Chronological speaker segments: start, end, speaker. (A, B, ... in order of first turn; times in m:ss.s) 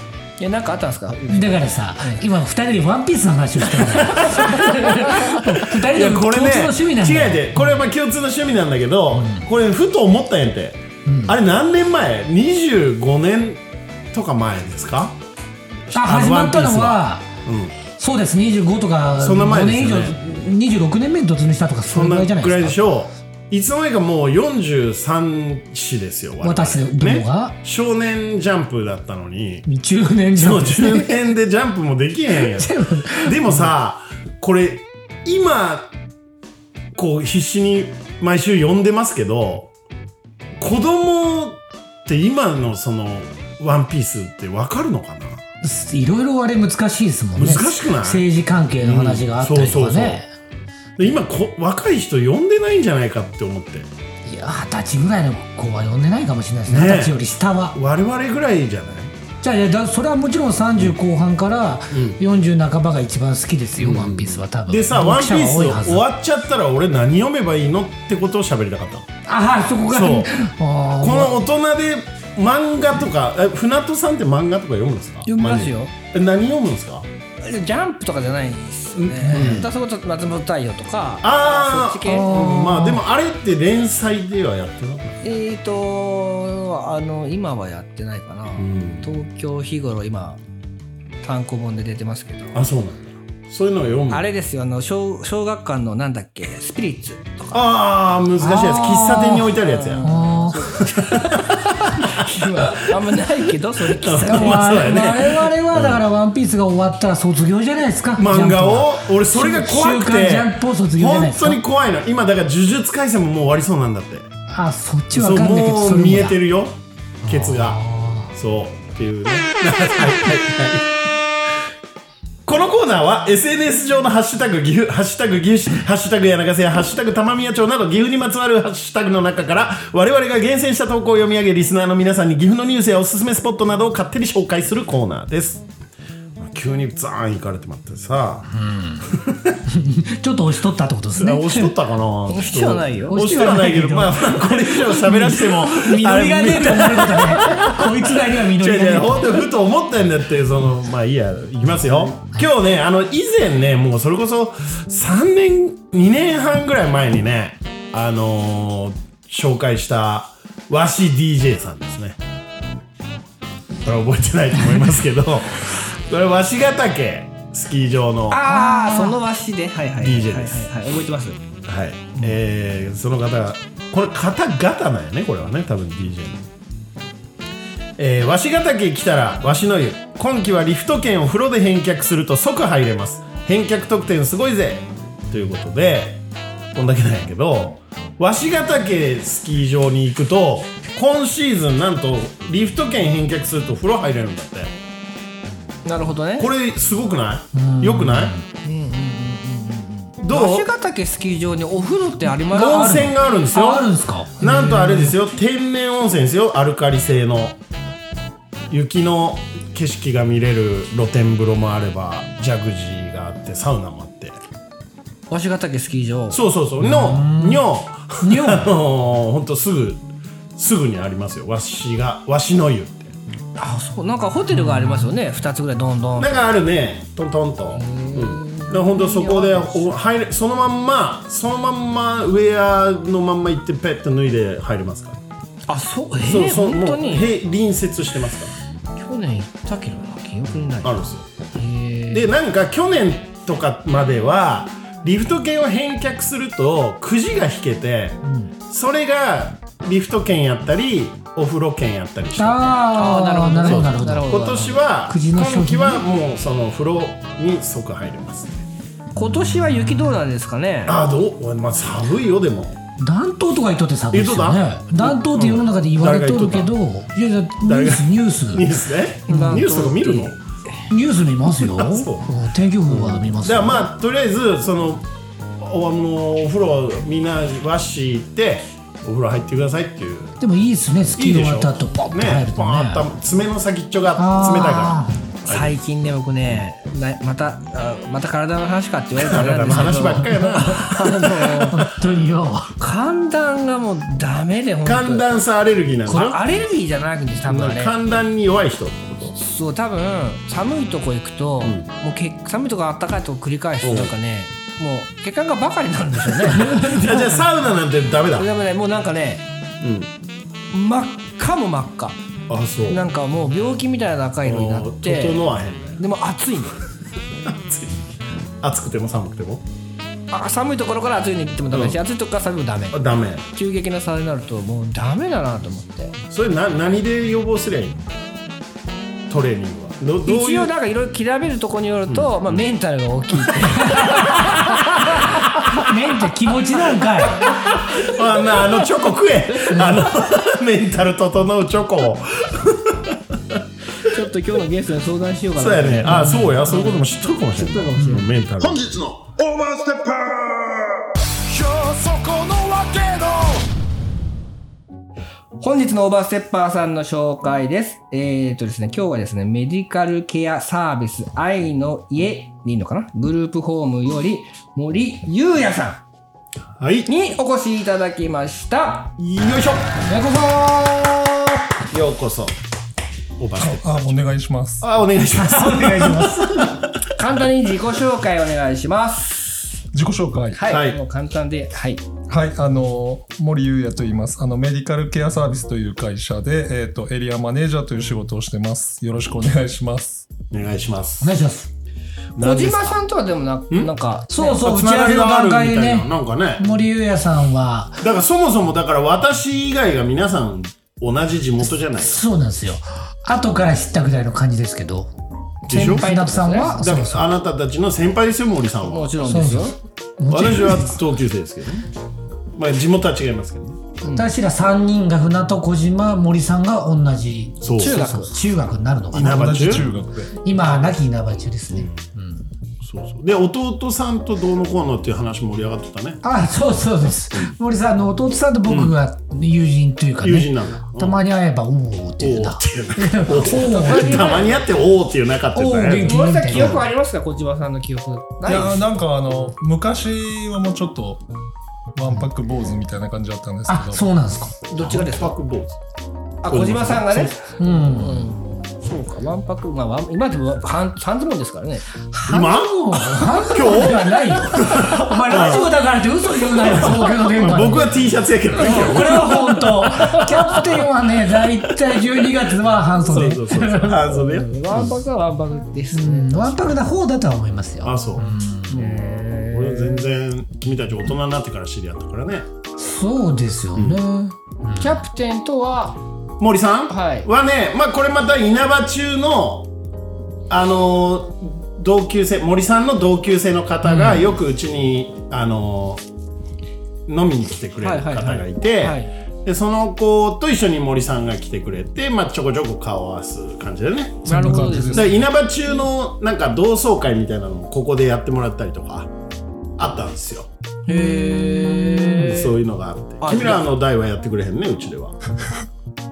0:00.4-0:02.3 A
0:01.3-0:07.8 B
0:04.0-0:04.8 C
0:04.4-0:05.3 A
0:05.5-0:15.2 C
0:09.1-0:09.5 B
0:11.0-0:11.4 B
0:15.9-0:17.8 C
0:15.9-0:17.3 B
0:17.9-0:22.8 B
0:19.2-0:20.2 C
0:21.9-0:29.7 C
0:26.4-0:27.6 B
0:29.7-0:31.2 B
0:30.4-0:35.9 C
0:32.4-0:33.5 B
0:37.0-0:39.7 C
0:40.6-0:45.4 C
0:45.6-0:50.3 B
0:47.4-0:48.2 C
0:48.8-0:50.2 C
0:51.0-0:53.9 C
0:54.3-0:57.8 B
0:56.7-0:57.2 C
0:57.7-0:59.1 C
0:59.4-1:06.0 B
1:01.9-1:02.2 C
1:03.8-1:09.1 C
1:09.3-1:11.4 B
1:09.9-1:10.3 C
1:11.0-1:17.1 C
1:15.3-1:15.9 A
1:17.4-1:22.6 A
1:19.0-1:19.7 C
1:19.2-1:19.6 B
1:21.2-1:25.2 C
1:22.0-1:23.0 B
1:25.2-1:30.4 A
1:28.6-1:29.1 C
1:31.2-1:32.6 A
1:32.5-1:34.2 C
1:34.1-1:37.6 A
1:37.5-1:40.1 C
1:38.4-1:40.7 B
1:39.6-1:45.2 A
1:40.7-1:42.9 C
1:44.0-1:46.0 C
1:44.2-1:51.6 B
1:48.2-1:54.3 C
1:54.5-1:56.4 B
1:55.1-2:01.0 C
1:57.2-1:58.3 B
2:02.5-2:15.6 C
2:16.4-2:18.5 C
2:18.5-2:19.1 B
2:19.1-2:19.6 C
2:19.7-2:21.7 B
2:21.1-2:42.2 C
2:22.3-2:23.2 A
2:23.1-2:29.5 B
2:43.8-2:48.4 C
2:48.3-2:51.4 A
2:48.4-2:49.2 B
2:50.0-2:50.7 C
2:51.6-2:56.5 C
2:58.0-3:06.2 C
3:06.7-3:14.7 C
3:15.8-3:16.5 A
3:16.4-3:18.4 C
3:17.5-3:18.4 B
3:18.6-3:23.1 A
3:20.2-3:20.7 C
3:22.5-3:25.1 B
3:22.5-3:27.6 C
3:28.7-3:34.4 C
3:35.3-3:36.4 A
3:36.3-3:40.0 C
3:36.8-3:37.7 B
3:38.2-3:38.7 B
3:40.6-3:43.2 C
3:43.6-3:46.4 A
3:44.5-3:45.1 B
3:46.2-3:55.2 C
3:47.8-3:49.9 A
3:55.7-3:57.3 A
3:56.2-3:58.5 C
3:59.0-4:02.3 A
4:00.8-4:01.3 C
4:02.1-4:12.7 C
4:12.4-4:14.3 B
4:12.9-4:14.9 A
4:13.6-4:18.6 C
4:15.1-4:16.0 B
4:19.2-4:21.0 A
4:20.9-4:22.8 C
4:23.0-4:28.7 B
4:24.1-4:26.7 C
4:27.6-4:30.4 C
4:29.3-4:30.4 A
4:29.3-4:29.6 B
4:30.9-4:33.9 B
4:31.6-4:32.3 C
4:32.9-4:35.1 C
4:35.6-4:40.4 C
4:40.4-4:43.1 B
4:41.2-4:45.8 C
4:44.2-4:45.2 B
4:45.5-4:51.9 A
4:49.2-4:51.7 C
4:49.7-4:51.0 B
4:51.7-4:52.7 B
4:52.8-4:55.3 A
4:54.8-4:56.4 C
4:56.1-4:58.0 A
4:57.4-4:59.4 C
4:59.4-5:07.5 A
5:01.6-5:01.9 C
5:03.8-5:04.1 C
5:06.5-5:08.5 C
5:08.4-5:09.4 A
5:09.8-5:10.1 C
5:10.7-5:12.2 A
5:12.5-5:13.0 C
5:12.9-5:15.4 A
5:14.4-5:16.0 C
5:16.0-5:16.8 A
5:17.5-5:18.0 C
5:18.6-5:19.6 C
5:20.3-5:26.2 A
5:21.7-5:22.0 C
5:22.9-5:23.4 C
5:26.3-5:28.0 C
5:29.3-5:30.7 C
5:30.2-5:35.9 A
5:32.1-5:32.6 C
5:35.6-5:37.5 B
5:37.0-5:38.1 A
5:38.0-5:44.1 C
5:39.6-5:40.0 A
5:44.0-5:48.4 A
5:45.6-5:49.1 C
5:46.0-5:46.6 B
5:49.2-5:50.8 D
5:51.5-5:53.6 D
5:55.6-6:06.0 A
6:06.8-6:07.1 C
6:07.1-6:09.1 A
6:09.2-6:10.0 C
6:10.0-6:11.6 B
6:11.9-6:12.5 C
6:13.4-6:14.2 C
6:13.6-6:15.0 E
6:14.8-6:17.1 C
6:15.3-6:16.8 B
6:17.1-6:19.6 A
6:19.9-6:20.6 E
6:20.5-6:22.0 A
6:20.7-6:21.0 C
6:22.3-6:30.3 E
6:30.5-6:31.4 C
6:31.2-6:31.7 B
6:32.4-6:33.0 C
6:32.4-6:34.6 A
6:34.3-6:38.0 B
6:34.6-6:36.6 C
6:38.0-6:42.2 C
6:42.0-6:45.1 B
6:45.7-6:46.2 C
6:45.7-6:46.8 A
6:45.7-6:47.3 B
6:46.7-6:49.2 C
6:48.8-6:49.8 A
6:49.2-6:51.0 B
6:50.3-6:51.9 C
6:52.6-6:53.8 C
6:54.0-6:54.3 A
6:54.1-7:02.5 B
6:57.6-6:58.0 C
6:57.8-6:58.4 A
6:59.1-6:59.9 C
6:59.2-7:00.3 E
7:01.7-7:02.0 C
7:02.8-7:06.2 C
7:06.2-7:14.4 B
7:08.7-7:09.0 C
7:10.2-7:11.2 C
7:12.2-7:16.8 C
7:13.3-7:14.7 A
7:15.6-7:16.9 B
7:15.9-7:18.8 A
7:18.4-7:21.2 E
7:22.0-7:24.1 E
7:23.7-7:24.6 B
7:24.7-7:25.4 A
7:24.8-7:25.8 C
7:26.4-7:32.2 A
7:26.5-7:27.4 C
7:27.6-7:28.3 B
7:32.3-7:35.6 C
7:32.3-7:44.1 B
7:34.8-7:35.7 A
7:36.7-7:39.4 C
7:38.7-7:40.7 A
7:43.0-7:44.9 C
7:43.9-7:46.8 A
7:45.9-7:48.9 B
7:47.8-7:52.5 C
7:48.7-7:50.1 A
7:52.8-7:55.0 B
7:53.8-7:54.0 C
7:54.8-7:56.0 A
7:56.4-7:59.7 C
7:56.9-7:57.3 A
8:00.5-8:06.0 C
8:03.8-8:04.2 B
8:07.1-8:19.1 C
8:07.8-8:09.1 A
8:14.2-8:15.2 E
8:14.2-8:15.3 A
8:19.8-8:20.5 C
8:20.9-8:22.6 A
8:20.9-8:22.4 B
8:22.2-8:25.2 C
8:23.2-8:23.6 A